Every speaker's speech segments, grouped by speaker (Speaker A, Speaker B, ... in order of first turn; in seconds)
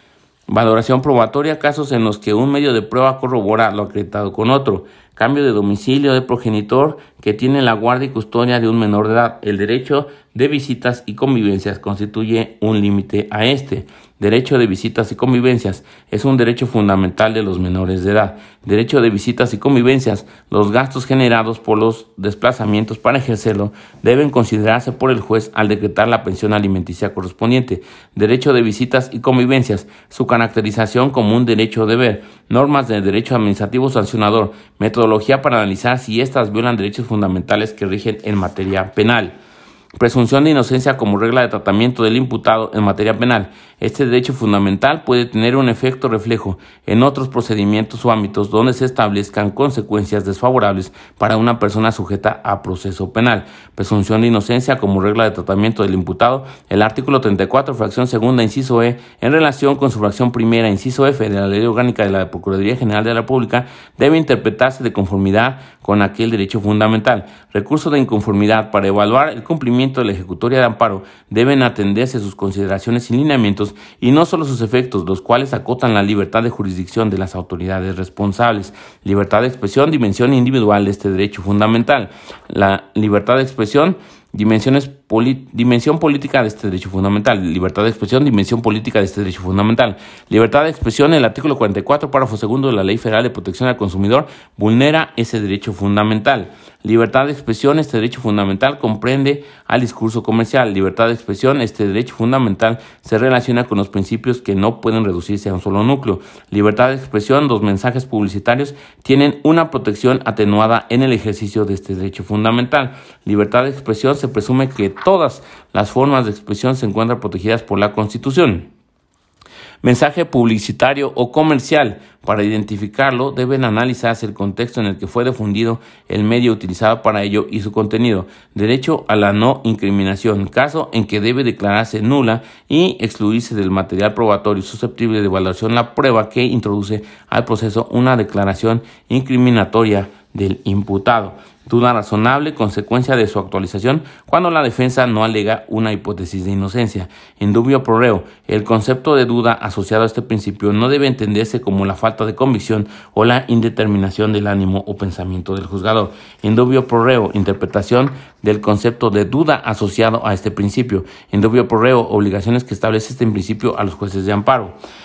Speaker A: 0.5-39.4, 40.0-118.7, 119.8-164.8